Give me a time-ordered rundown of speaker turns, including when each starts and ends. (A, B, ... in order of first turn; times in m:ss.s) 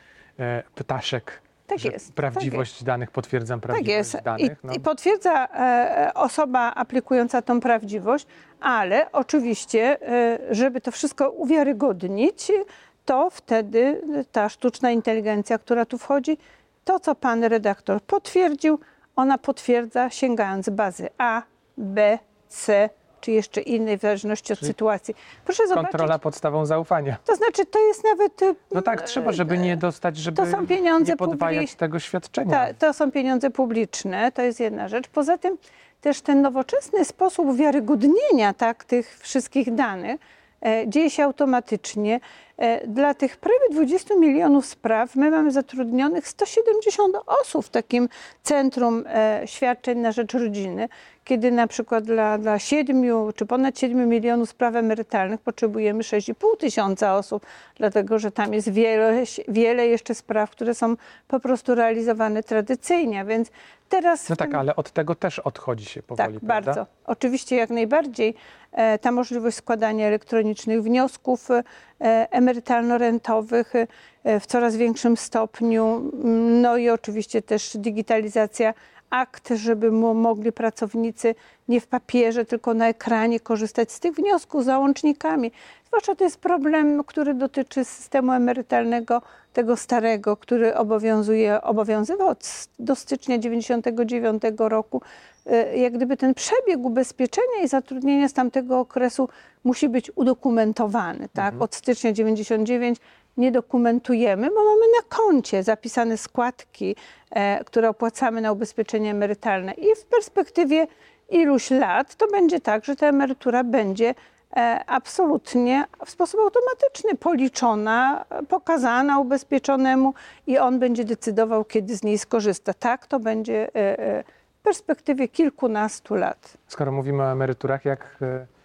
0:00.4-0:04.8 A
0:01.7-0:02.6 B
0:03.7-0:26.2 B
0:25.7-0:27.2 A
0:27.3-0:29.8 B
0:28.7-0:32.7 A
0:30.3-0:31.7 B
0:32.5-1:04.6 B
1:04.3-1:06.8 A
1:06.2-2:06.6 B
2:06.7-2:08.5 A